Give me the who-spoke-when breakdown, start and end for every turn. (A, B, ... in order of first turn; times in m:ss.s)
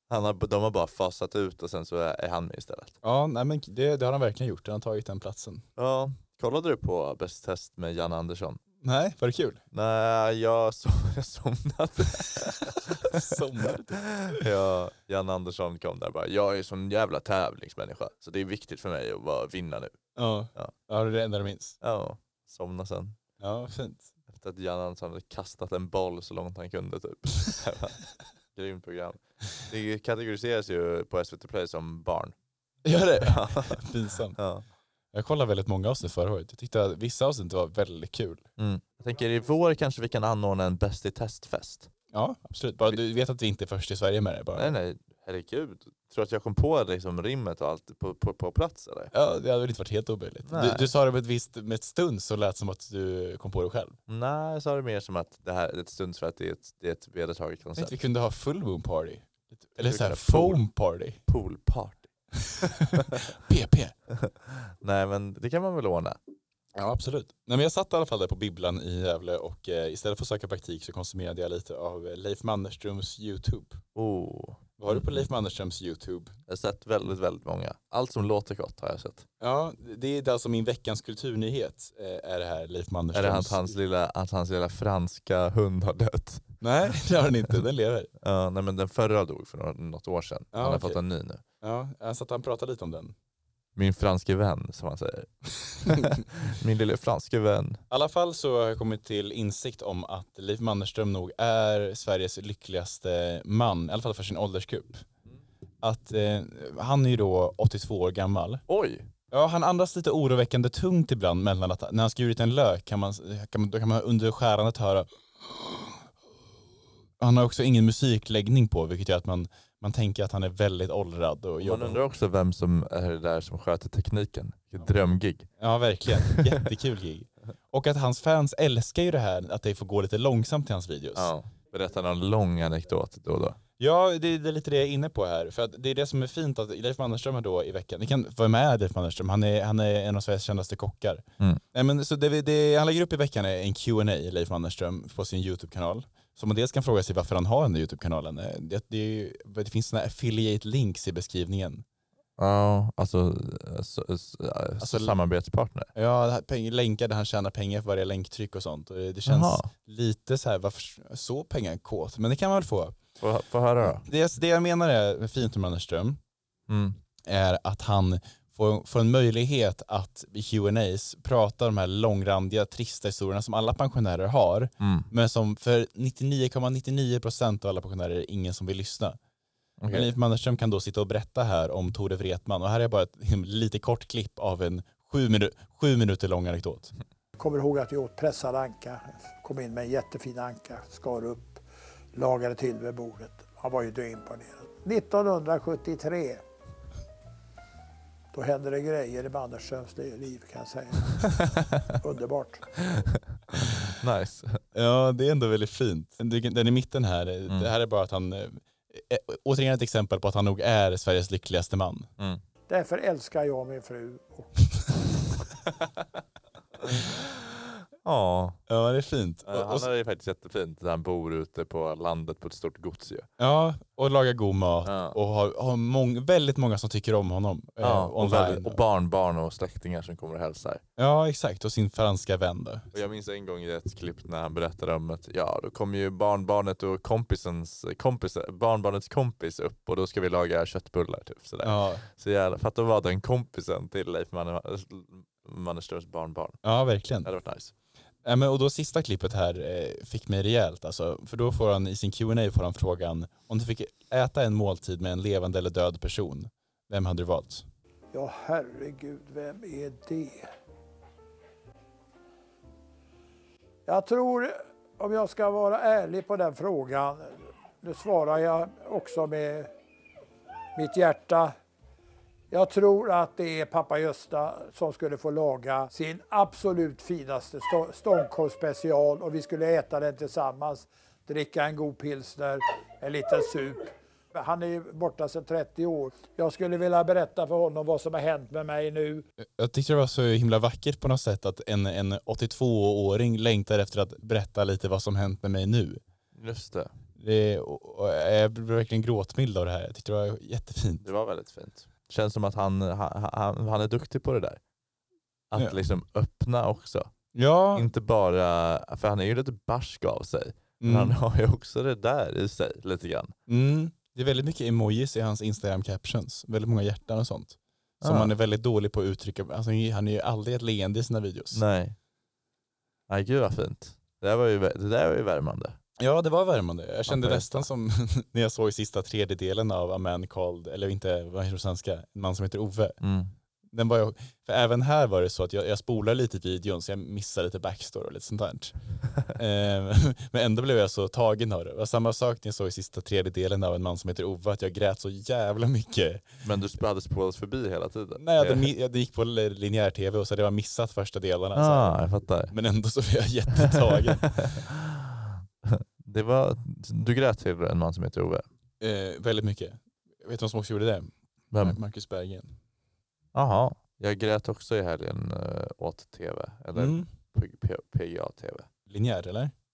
0:00.1-0:03.0 A
0:03.0-0:05.6 B
0:05.8-0:08.6 A
0:08.8-0:09.6 B
0:09.7-0:13.4 A
0:13.0-0:14.4 B
0:14.3-0:20.0 A
0:20.2-0:21.8 B
0:21.8-0:23.2 A
0:23.4-0:24.1 B
0:24.3-0:28.0 A
0:28.5-0:32.3 A
0:32.8-0:34.4 B
0:33.2-0:33.8 A
0:34.4-0:34.6 A
0:35.1-0:38.4 B
0:38.6-0:41.9 A
0:42.1-0:44.7 B
0:44.6-0:49.1 A
0:49.1-0:54.0 B
0:50.5-0:50.9 A
0:54.1-0:58.0 A
0:57.8-1:01.2 B
0:59.8-1:00.7 A
1:01.3-1:02.1 A
1:02.6-1:03.9 B
1:04.2-1:06.2 A
1:06.8-1:13.8 B
1:14.0-1:15.3 A
1:14.8-1:16.3 B
1:16.5-1:19.3 A
1:19.4-1:23.7 B
1:23.1-1:26.5 A
1:26.6-1:28.1 B
1:28.2-1:31.4 A
1:30.5-1:31.0 B
1:31.6-1:33.1 B
1:33.8-1:35.3 A
1:35.8-1:37.8 A
1:37.9-1:45.1 B
1:45.8-1:48.6 B
1:48.7-1:49.1 A
1:49.3-1:55.1 B
1:57.2-2:02.0 B
2:01.6-2:05.5 A
2:05.6-2:11.3 B
2:06.2-2:06.5 A
2:11.2-2:13.6 A
2:13.8-2:31.8 B
2:32.4-2:35.9 A
2:34.8-2:35.2 B
2:36.0-2:43.0 B
2:39.3-2:39.7 A
2:43.2-2:44.0 A
2:43.8-2:46.2 B
2:46.7-2:47.0 A
2:47.3-2:59.2 B
2:54.8-2:55.1 A
2:59.8-3:00.1 A
2:59.9-3:06.9 B
3:07.4-3:11.6 C
3:12.1-3:16.4 C
3:18.3-3:21.3 C
3:22.0-3:22.6 C
3:24.0-3:24.6 A
3:24.7-3:32.1 B
3:32.7-3:34.5 C
3:38.0-3:38.6 A
3:38.7-3:39.9 B
3:39.5-3:43.3 A
3:43.4-3:48.8 B
3:44.8-3:45.2 A
3:47.8-3:50.8 A
3:51.0-3:52.9 B
3:52.9-4:06.6 A
4:01.6-4:02.0 B
4:06.6-4:07.3 B
4:07.2-4:07.7 A
4:08.2-4:17.6 B
4:18.1-4:20.5 C
4:23.9-4:29.7 C
4:30.8-4:31.6 C
4:32.5-4:49.2 C
4:49.6-4:56.0 B
4:56.4-4:56.9 A
4:57.2-5:01.0 B
5:01.0-5:04.6 A
5:05.5-5:07.1 A
5:07.4-5:07.9 B
5:07.7-5:13.3 A
5:10.8-5:11.2 B
5:13.5-5:21.6 B
5:18.0-5:18.3 A
5:21.5-5:22.0 A
5:23.1-5:25.8 A
5:26.0-5:33.0 B
5:27.1-5:27.7 A
5:33.0-5:33.3 A
5:33.7-5:38.8 B
5:39.3-5:46.3 B
5:46.4-5:48.7 A
5:48.2-5:54.4 B
5:51.6-5:52.5 A
5:53.6-5:55.0 A
5:55.6-5:58.4 A
5:58.8-6:02.5 B
6:03.3-6:08.7 A
6:06.8-6:07.1 B
6:08.9-6:09.5 B